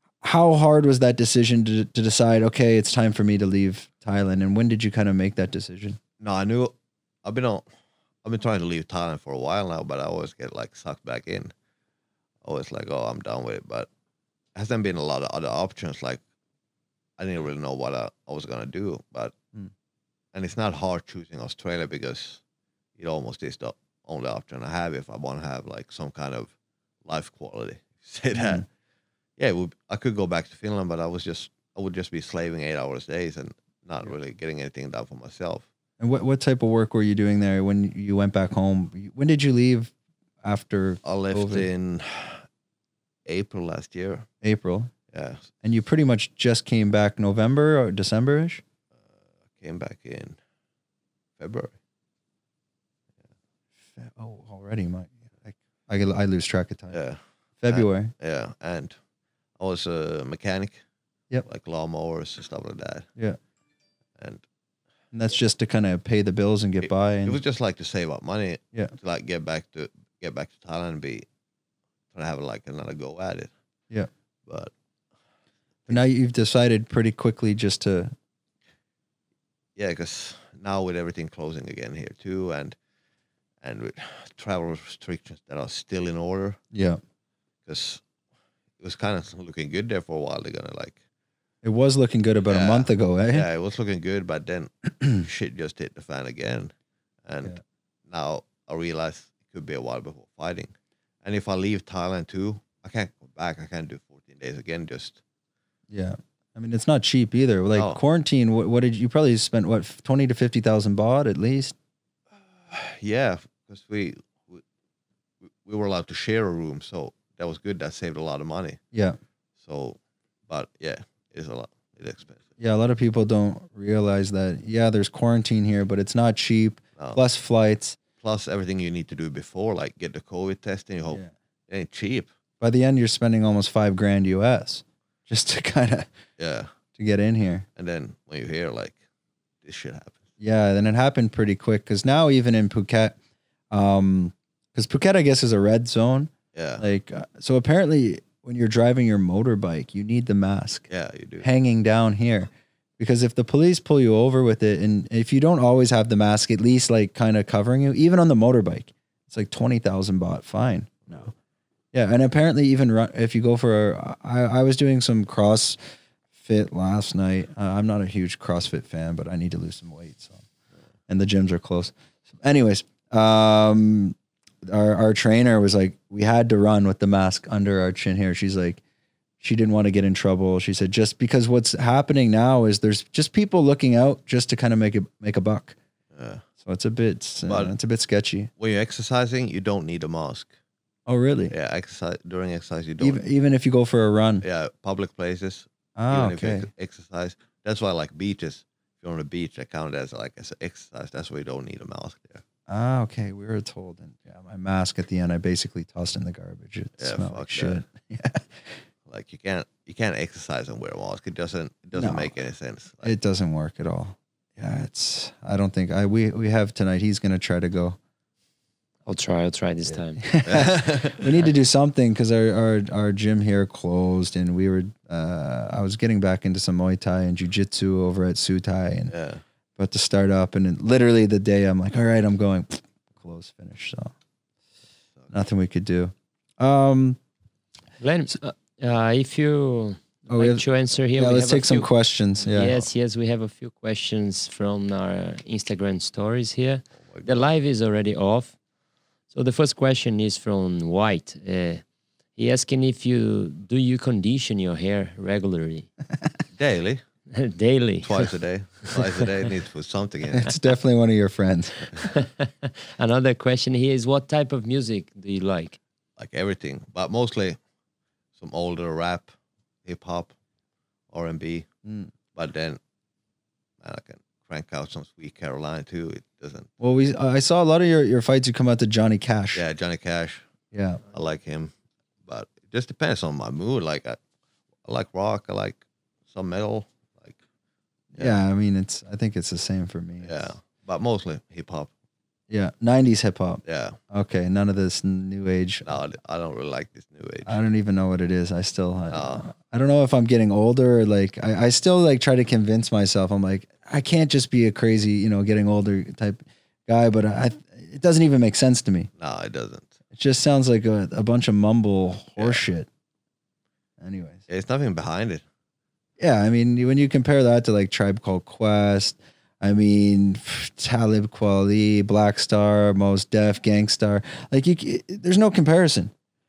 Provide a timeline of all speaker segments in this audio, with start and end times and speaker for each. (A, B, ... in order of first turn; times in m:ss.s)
0:00.2-0:06.0 A
0:06.2-0:07.6 B
0:08.2-0:11.5 B
0:12.4-0:13.9 B
0:14.5-0:16.2 B
0:17.2-0:19.3 B
0:20.3-0:22.4 B
0:23.0-0:26.5 B
0:27.0-0:28.6 B
0:28.3-0:28.6 A
0:29.4-0:35.6 B
0:36.0-0:41.7 A
0:41.0-0:42.4 B
0:43.2-0:44.3 B
0:44.4-0:44.9 A
0:45.1-0:45.5 B
0:45.6-0:48.6 A
0:49.6-0:50.4 B
0:51.4-0:51.8 B
0:54.0-0:57.0 A
0:56.9-0:59.0 B
0:57.6-0:58.1 A
0:59.6-1:00.8 B
1:01.4-1:03.1 B
1:04.2-1:04.4 B
1:05.1-1:07.4 A
1:07.2-1:11.2 B
1:12.1-1:13.5 B
1:14.4-1:14.7 B
1:15.9-1:18.1 A
1:19.8-1:22.8 B
1:23.6-1:26.6 B
1:26.7-1:27.0 A
1:27.6-1:28.0 B
1:28.8-1:31.0 B
1:31.6-1:33.5 A
1:32.5-1:36.7 B
1:37.2-1:40.7 B
1:41.2-1:45.2 B
1:45.9-1:51.7 A
1:47.7-1:48.0 B
1:52.6-1:54.6 B
1:55.4-1:58.8 B
1:59.6-2:02.4 B
2:02.6-2:08.0 A
2:07.0-2:07.2 B
2:08.2-2:12.3 B
2:12.6-2:16.1 A
2:16.4-2:16.7 B
2:16.9-2:17.6 A
2:17.8-2:19.0 B
2:19.6-2:20.2 B
2:20.4-2:23.2 A
2:23.7-2:30.9 A
2:26.5-2:26.8 B
2:30.9-2:31.4 B
2:31.4-2:41.3 A
2:41.9-2:45.8 A
2:46.4-2:50.4 A
2:51.1-2:58.8 A
2:59.4-3:05.8 A
3:06.1-3:06.4 B
3:06.6-3:08.5 A
3:07.5-3:07.7 B
3:08.6-3:10.5 B
3:11.1-3:11.5 A
3:11.5-3:13.2 B
3:13.0-3:14.4 A
3:14.4-3:22.4 B
3:16.0-3:16.7 A
3:22.7-3:28.6 A
3:27.0-3:27.8 B
3:29.1-3:33.1 B
3:31.9-3:32.3 A
3:33.0-3:38.0 A
3:39.0-3:40.2 C
3:39.9-3:49.1 A
3:40.4-3:41.4 B
3:49.1-3:49.4 B
3:49.8-3:54.1 A
3:55.3-3:57.2 A
3:58.0-4:01.9 C
4:00.3-4:02.8 A
4:02.5-4:08.5 C
4:07.0-4:07.5 B
4:09.3-4:11.8 C
4:12.4-4:15.9 C
4:16.5-4:17.0 B
4:17.3-4:18.3 C
4:18.0-4:20.5 B
4:18.8-4:19.3 C
4:20.3-4:22.0 A
4:22.0-4:25.8 C
4:26.2-4:27.6 B
4:28.3-4:29.3 B
4:29.8-4:30.3 B
4:31.1-4:31.7 B
4:31.8-4:32.1 A
4:32.3-4:32.8 B
4:33.8-4:36.7 B
4:36.8-4:39.6 A
4:39.5-4:40.4 B
4:40.7-4:41.0 A
4:41.1-4:41.7 B
4:42.2-4:44.2 B
4:44.8-4:47.4 B
4:48.1-4:50.5 A
4:50.2-4:51.9 B
4:52.5-4:55.9 A
4:53.6-4:54.0 B
4:55.8-4:57.5 B
4:57.4-5:09.1 A
4:59.1-4:59.4 B
5:09.2-5:09.9 B
5:10.1-5:12.9 A
5:12.4-5:12.6 B
5:14.0-5:14.4 A
5:14.5-5:15.4 B
5:16.2-5:26.1 A